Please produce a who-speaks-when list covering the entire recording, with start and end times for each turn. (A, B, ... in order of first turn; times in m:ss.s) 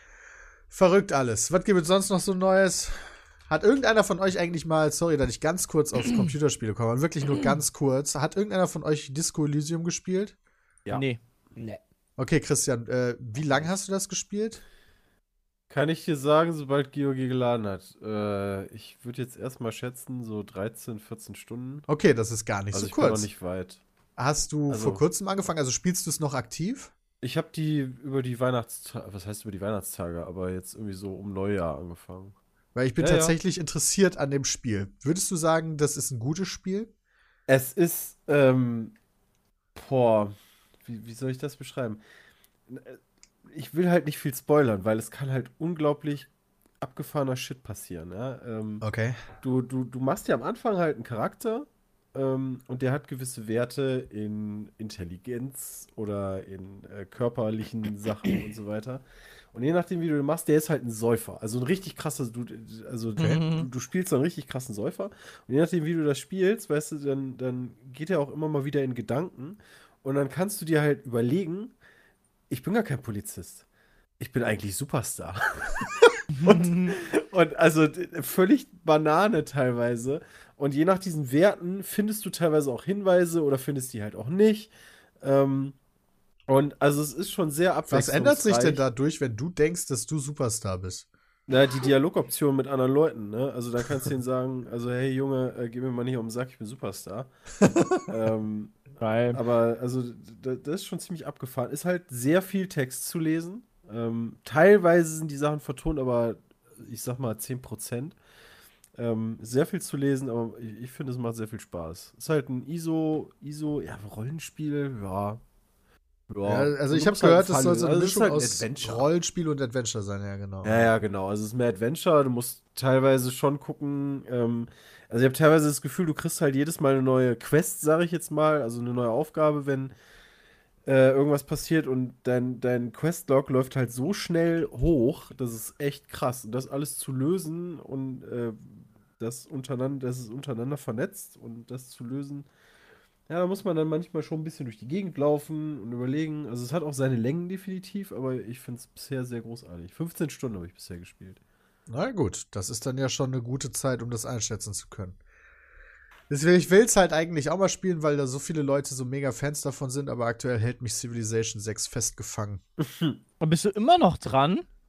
0:00.7-0:10.3 A
0:10.9-0:11.2 B
0:12.2-0:14.6 A
0:15.7-0:21.9 C
0:21.9-0:23.3 A
0:22.7-0:23.8 C
0:24.2-0:26.9 A
0:24.7-0:25.0 C
0:27.2-0:32.3 C
0:32.7-0:36.9 A
0:33.0-0:33.3 C
0:37.5-0:38.9 C
0:39.7-0:42.0 C
0:42.7-0:46.3 C
0:46.8-0:48.8 C
0:48.8-0:49.2 A
0:49.4-1:11.7 C
1:03.2-1:03.4 A
1:03.2-1:03.7 B
1:12.5-1:13.6 C
1:14.2-1:25.8 C
1:16.3-1:16.9 B
1:26.5-1:28.8 C
1:27.9-1:31.0 A
1:31.5-1:37.3 C
1:37.6-1:38.0 A
1:38.1-1:48.2 C
1:39.0-1:39.4 B
1:48.9-1:55.4 C
1:56.3-1:59.1 C
1:56.4-2:00.9 A
2:00.6-2:09.9 C
2:10.8-2:22.5 C
2:23.3-2:31.4 C
2:31.9-2:35.2 A
2:36.3-2:42.6 A
2:43.4-2:44.6 B